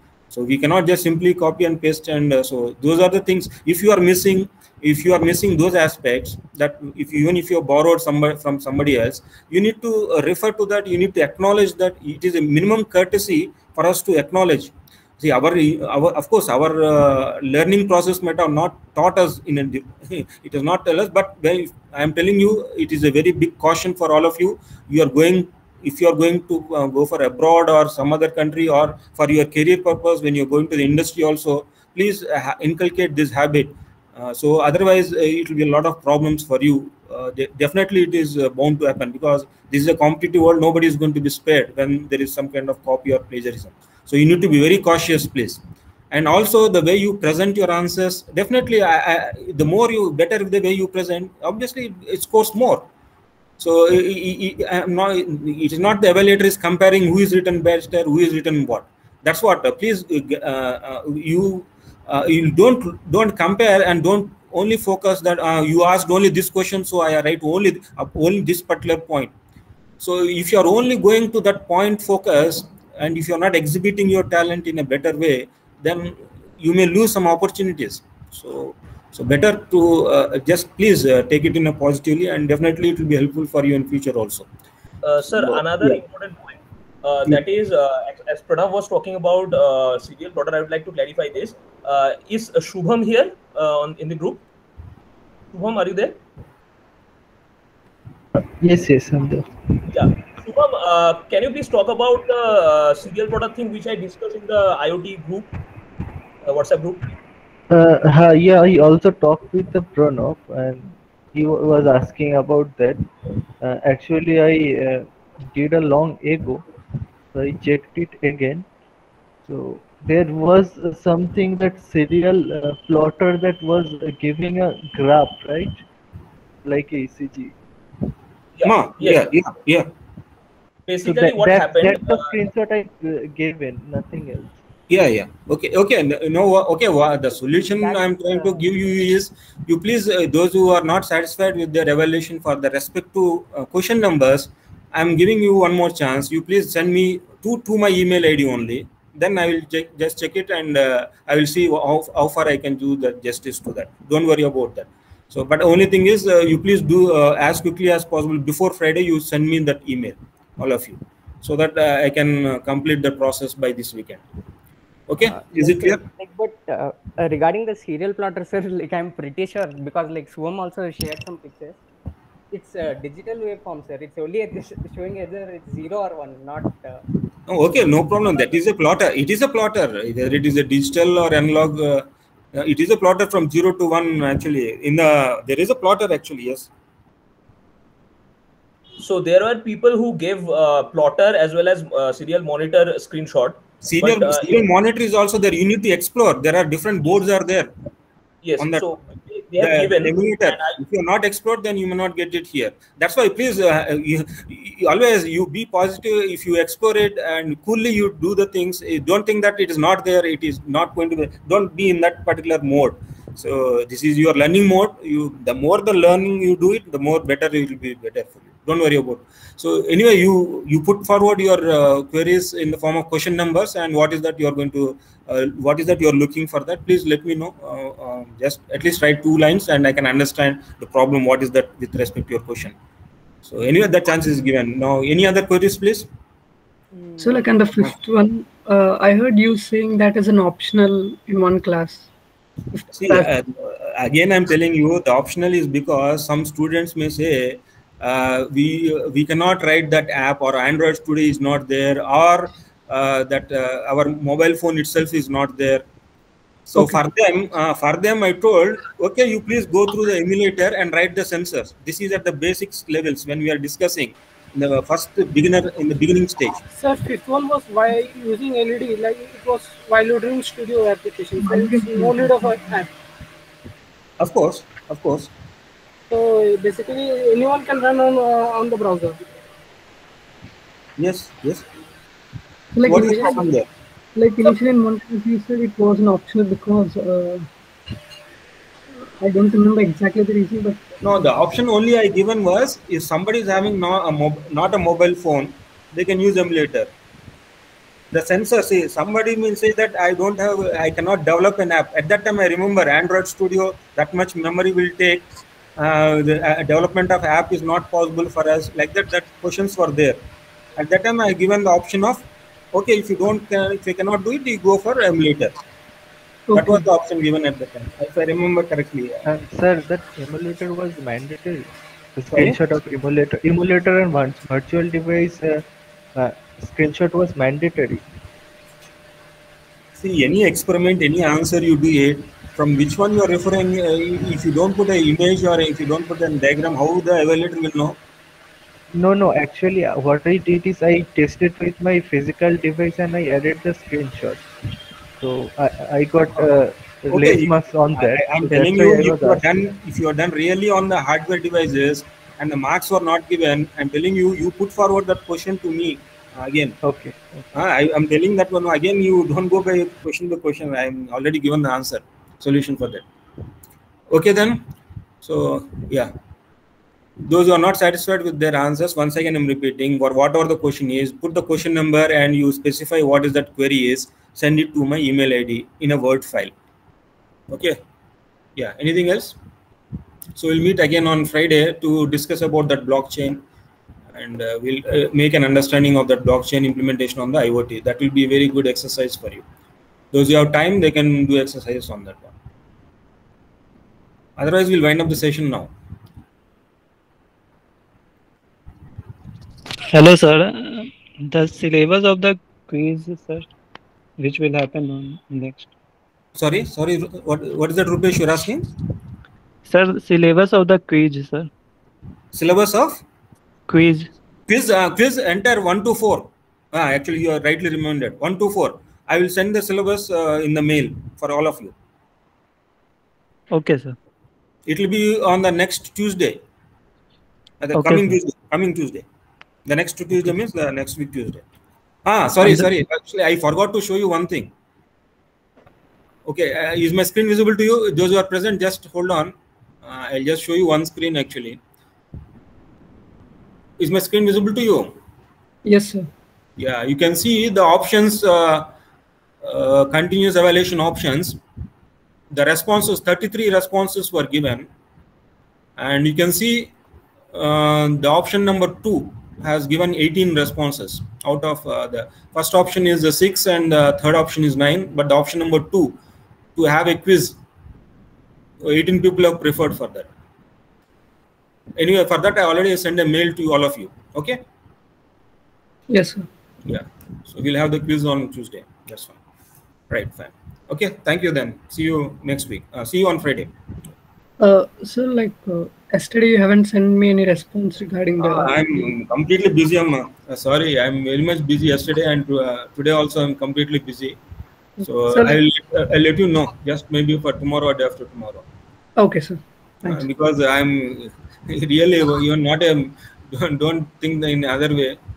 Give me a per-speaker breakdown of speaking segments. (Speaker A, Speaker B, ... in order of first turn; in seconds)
Speaker A: 0.3-45.6, 46.1-52.9, 53.6-69.3, 70.0-84.5, 85.2-86.0, 128.6-129.9, 134.9-164.2, 165.1-166.0, 177.5-186.7, 193.8-197.7, 198.6-198.9, 199.6-232.7, 233.4-236.1, 242.9-255.8, 256.7-266.6, 274.2-275.3, 281.0-281.6, 282.9-283.6, 291.0-296.9, 298.1-310.2, 310.8-315.6, 316.5-319.2, 330.0-338.0, 347.1-356.8, 357.5-363.1, 364.1-364.6, 365.2-366.1, 367.2-376.5, 377.5-377.8, 378.6-379.4, 380.4-383.4, 384.1-389.4, 390.1-392.3, 394.4-395.7, 406.4-408.7, 412.3-413.0, 414.5-421.7, 424.7-426.4, 427.6-429.0, 429.7-431.4, 432.0-434.5, 436.2-441.6, 443.8-444.9, 446.6-448.7, 449.4-451.4, 452.3-454.7, 455.8-456.7, 457.3-466.0, 466.6-467.4, 468.6-470.1, 471.8-474.4, 476.6-479.2, 479.9-483.5, 488.2-494.2, 494.8-498.4, 499.9-505.0
Speaker B: 85.0-94.4, 95.5-96.2, 99.9-105.5, 106.4-107.1, 128.6-129.3, 130.9-132.3, 189.0-194.6, 198.4-200.8
Speaker C: 98.3-99.5, 107.7-113.1, 113.6-116.6, 117.3-118.7, 119.4-125.8, 126.6-127.5, 131.0-134.6, 319.2-325.6, 326.1-328.0, 338.9-344.4, 345.2-349.4, 356.8-357.1
Speaker D: 137.8-138.6, 165.3-171.8, 172.5-177.0, 236.9-237.6
Speaker E: 237.2-242.1, 242.7-243.3, 271.4-272.7, 282.7-283.4, 284.1-287.5, 289.2-290.8, 316.5-316.8, 445.6-446.1, 475.9-476.2, 484.4-488.8, 494.8-495.4, 499.0-500.0
Speaker F: 266.7-272.9, 276.1-279.2, 282.9-283.3
Speaker G: 399.9-403.5, 404.2-405.7, 409.6-411.5, 413.7-414.1, 423.5-423.9, 427.7-428.1, 432.4-432.7